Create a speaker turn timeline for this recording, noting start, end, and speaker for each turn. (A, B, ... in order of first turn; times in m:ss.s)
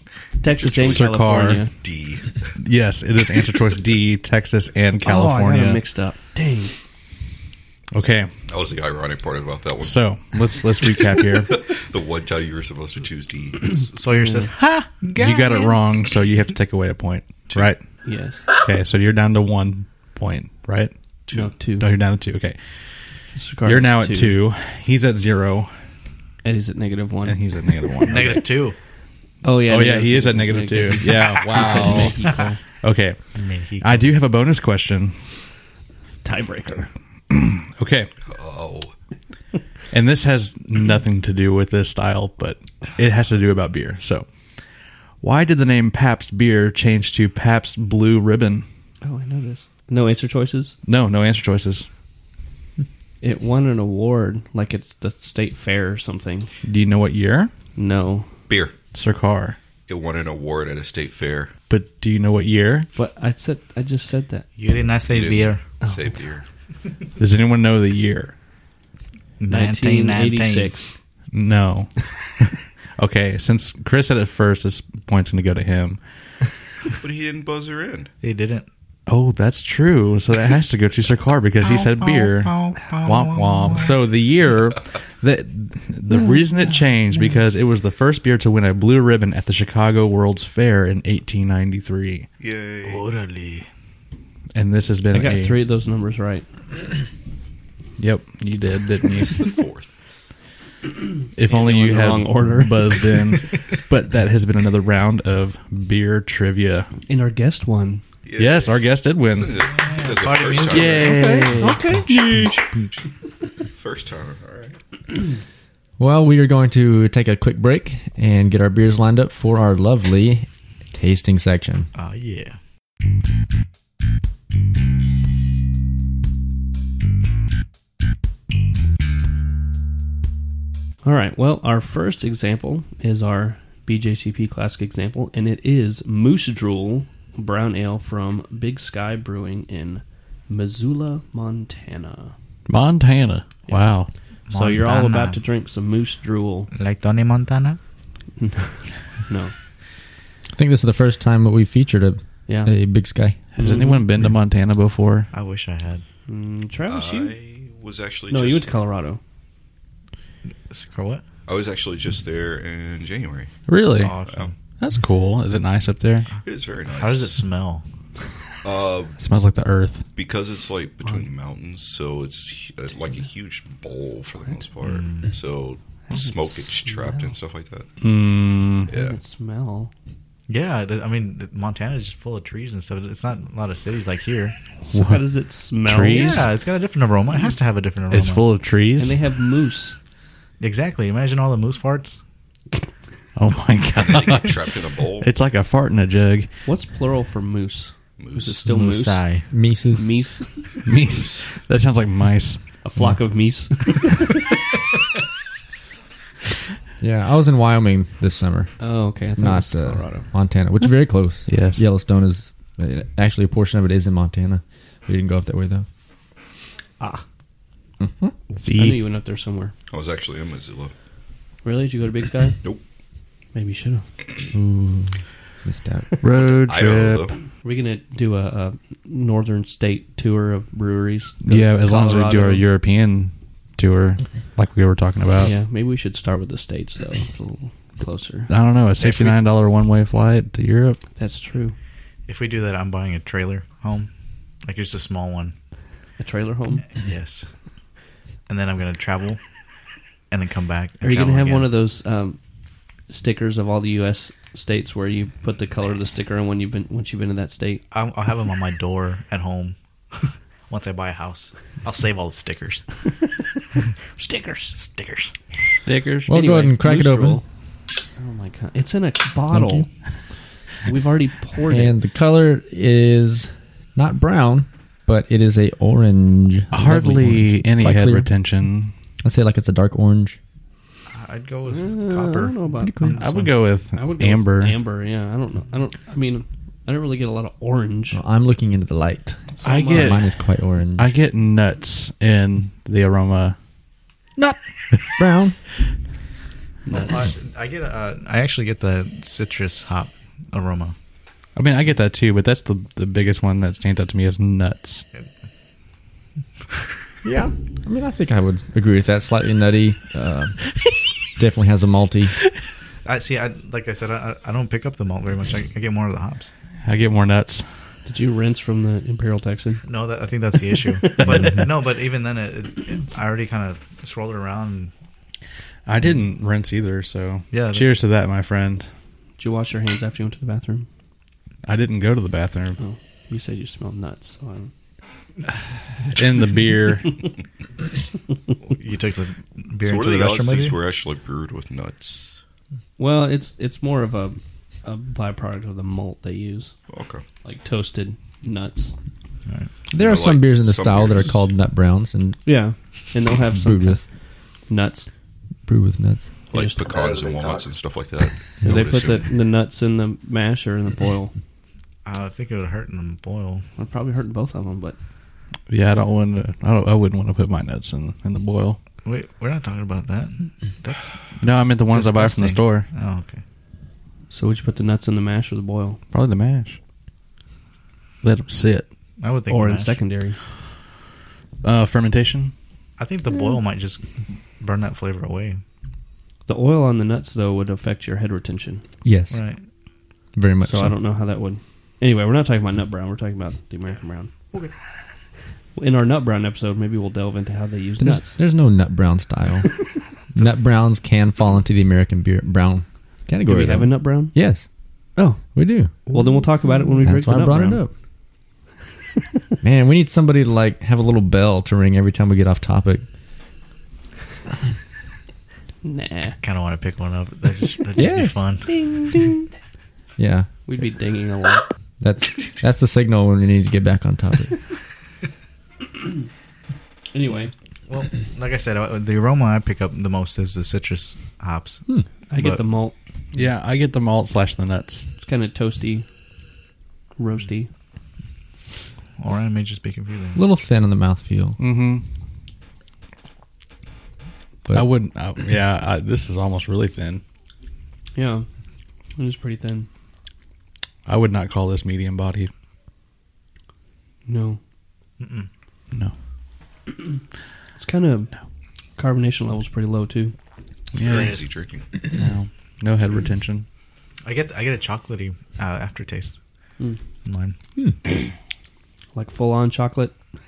0:00.4-0:01.7 A
0:00.6-0:01.1 B
0:00.8-0:01.6 C
0:01.7-0:02.6 B
0:02.6-0:05.8 C
0:05.0-0:06.7 A
0:07.9-0:08.3 C
0:08.5-0:10.9 B
0:09.8-0:11.6 C
0:11.5-0:13.9 B
0:13.8-0:15.8 D
0:14.1-0:14.5 A
0:15.1-0:17.8 C
0:18.0-0:18.4 A
0:18.5-0:20.9 C
0:21.3-0:21.5 B
0:21.3-0:21.9 A
0:21.8-0:22.6 C
0:23.3-0:24.4 A
0:23.6-0:25.7 C
0:26.4-0:27.4 A
0:27.2-0:28.4 C
0:28.0-0:28.8 D
0:29.4-0:32.6 A
0:29.6-0:32.3 C
0:31.2-0:31.8 D
0:32.8-0:33.2 C
0:33.4-0:34.1 D
0:33.8-0:35.2 C
0:36.2-0:36.9 A
0:37.3-0:38.1 C
0:38.3-0:38.9 B
0:39.9-0:44.3 C
0:45.2-0:48.6 C
0:49.0-0:50.7 A
0:50.8-0:51.9 C
0:53.2-0:56.5 A
0:56.6-0:57.5 C
0:57.8-0:58.3 A
0:58.5-0:58.8 B
0:58.9-0:59.6 C
0:59.9-1:01.5 B
1:01.7-1:02.9 C
1:02.9-1:04.5 A
1:04.6-1:05.6 D
1:05.1-1:06.4 B
1:05.8-1:06.1 A
1:07.2-1:08.3 C
1:09.4-1:10.7 D
1:09.5-1:10.9 A
1:11.3-1:12.0 C
1:13.0-1:16.0 C
1:17.0-1:18.1 B
1:18.2-1:18.7 D
1:19.1-1:32.3 C
1:21.7-1:23.9 D
1:26.1-1:26.4 A
1:32.4-1:33.0 B
1:32.8-1:33.7 D
1:34.5-1:35.6 C
1:35.1-1:36.5 A
1:38.0-1:39.5 C
1:39.2-1:39.9 B
1:41.3-1:46.9 C
1:41.5-1:43.1 A
1:47.1-1:48.0 A
1:48.2-1:51.3 B
1:48.4-1:49.6 C
1:49.7-1:52.0 D
1:50.7-1:52.6 C
1:51.6-1:52.0 E
1:53.7-1:54.8 B
1:56.0-2:01.9 E
2:01.9-2:02.6 D
2:11.0-2:22.3 A
2:22.7-2:24.1 C
2:24.5-2:25.4 D
2:24.5-2:26.7 A
2:26.7-2:27.8 D
2:28.4-2:29.5 A
2:30.5-2:33.5 E
2:32.5-2:32.7 A
2:33.5-2:35.3 C
2:33.6-2:34.1 A
2:35.3-2:36.0 D
2:36.3-2:37.4 A
2:36.9-2:38.7 B
2:38.3-2:39.2 A
2:40.7-2:41.2 D
2:41.5-2:43.6 B
2:43.7-2:44.2 C
2:44.0-2:44.6 D
2:44.2-2:44.5 B
2:44.8-2:46.3 C
2:46.4-2:47.4 B
2:46.9-2:47.8 D
2:48.6-2:49.2 B
2:49.2-2:50.0 C
2:50.1-2:57.9 B
2:54.8-2:55.3 D
2:56.1-2:57.3 A
2:58.0-2:58.9 C
2:58.9-2:59.9 A
2:58.9-2:59.2 B
3:00.5-3:04.5 D
3:04.9-3:06.4 A
3:04.9-3:05.2 C
3:05.8-3:06.5 C
3:06.1-3:08.4 D
3:08.1-3:09.2 C
3:09.0-3:10.0 A
3:10.6-3:12.2 D
3:13.4-3:16.5 C
3:14.0-3:15.3 B
3:16.6-3:20.8 A
3:18.2-3:18.6 B
3:18.6-3:19.5 D
3:19.5-3:20.1 E
3:20.8-3:22.6 C
3:21.0-3:21.5 B
3:22.8-3:24.4 A
3:27.0-3:28.7 E
3:28.8-3:30.2 A
3:29.4-3:35.8 E
3:31.5-3:31.8 C
3:37.0-3:37.2 A
3:38.0-3:38.4 E
3:38.6-3:39.0 C
3:38.8-3:39.7 A
3:39.9-3:40.9 B
3:41.6-3:42.6 A
3:43.5-3:44.0 A
3:44.5-3:46.1 E
3:46.2-3:47.3 C
3:46.4-3:47.3 B
3:47.6-3:52.6 A
3:51.4-3:55.5 C
3:55.4-3:58.5 A
3:58.5-4:01.0 C
3:59.0-3:59.4 D
4:01.2-4:01.8 A
4:02.3-4:04.1 D
4:04.6-4:05.5 D
4:06.2-4:06.9 A
4:06.9-4:07.5 D
4:08.5-4:09.4 D
4:10.3-4:11.7 D
4:11.0-4:12.4 A
4:13.1-4:17.8 A
4:17.9-4:22.9 D
4:24.2-4:24.8 A
4:24.8-4:25.3 D
4:25.8-4:26.3 C
4:26.3-4:27.4 E
4:26.3-4:27.4 A
4:28.2-4:29.9 A
4:29.5-4:29.9 E
4:30.8-4:32.0 A
4:31.7-4:38.3 E
4:36.7-4:38.9 C
4:39.2-4:40.4 E
4:41.1-4:43.6 D
4:41.7-4:43.0 A
4:42.8-4:43.2 E
4:43.1-4:44.8 C
4:43.9-4:48.2 A
4:48.1-4:51.1 E
4:49.6-4:50.2 A
4:49.6-4:50.3 C
4:51.0-4:53.6 C
4:54.9-4:55.6 E
4:56.9-4:57.2 A
4:56.9-5:00.9 D
5:01.6-5:05.0 C
5:07.2-5:10.7 E
5:11.3-5:12.4 E
5:13.0-5:16.5 D
5:16.8-5:17.7 C
5:18.0-5:19.8 A
5:19.8-5:24.9 D
5:25.8-5:28.9 C
5:27.5-5:27.9 D
5:29.4-5:30.9 A
5:31.6-5:32.8 C
5:32.8-5:34.7 A
5:36.1-5:37.2 C
5:38.7-5:40.8 D
5:39.8-5:42.4 B
5:43.0-5:46.7 A
5:46.9-5:47.2 B
5:47.4-5:48.9 A
5:49.9-5:52.4 E
5:49.9-5:51.4 B
5:52.4-5:54.0 A
5:53.5-5:54.0 E
5:54.7-5:55.1 A
5:55.6-5:56.3 E
5:56.5-5:56.9 A
5:56.5-5:59.3 B
5:56.9-5:57.6 D
5:58.6-6:01.3 A
6:02.0-6:03.6 D
6:03.8-6:05.0 A
6:05.7-6:08.8 C
6:09.0-6:13.4 D
6:11.4-6:12.9 C
6:14.3-6:16.0 A
6:16.1-6:16.8 C
6:18.2-6:18.9 C
6:19.2-6:20.0 D
6:19.5-6:20.4 A
6:21.6-6:22.5 C
6:23.0-6:24.0 D
6:24.6-6:25.6 D
6:26.5-6:28.8 A
6:29.0-6:29.4 E
6:29.3-6:29.6 D
6:30.4-6:31.0 E
6:30.6-6:34.3 A
6:35.7-6:38.4 A
6:38.0-6:44.7 E
6:43.4-6:44.4 A
6:45.2-6:47.8 A
6:45.5-6:45.9 E
6:47.0-6:47.9 E
6:49.6-6:53.0 E
6:55.8-6:56.4 A
6:56.4-6:58.7 D
6:58.0-6:59.4 E
7:00.2-7:00.5 E
7:00.7-7:01.6 A
7:02.0-7:04.6 E
7:07.1-7:07.5 A
7:07.9-7:11.8 D
7:12.3-7:12.9 A
7:13.3-7:15.1 C
7:15.2-7:16.0 A
7:17.2-7:17.7 A
7:19.2-7:20.4 D
7:20.3-7:21.6 E
7:21.6-7:22.0 C
7:24.7-7:27.2 C
7:28.1-7:28.5 A
7:29.2-7:29.9 A
7:31.0-7:32.5 C
7:34.2-7:34.6 A
7:35.2-7:35.5 D
7:37.8-7:38.3 A
7:39.0-7:40.3 A
7:40.9-7:41.9 B
7:41.0-7:41.4 C
7:41.0-7:41.4 D
7:42.1-7:43.6 C
7:44.2-7:46.3 D
7:47.2-7:47.6 D
7:49.1-7:50.1 A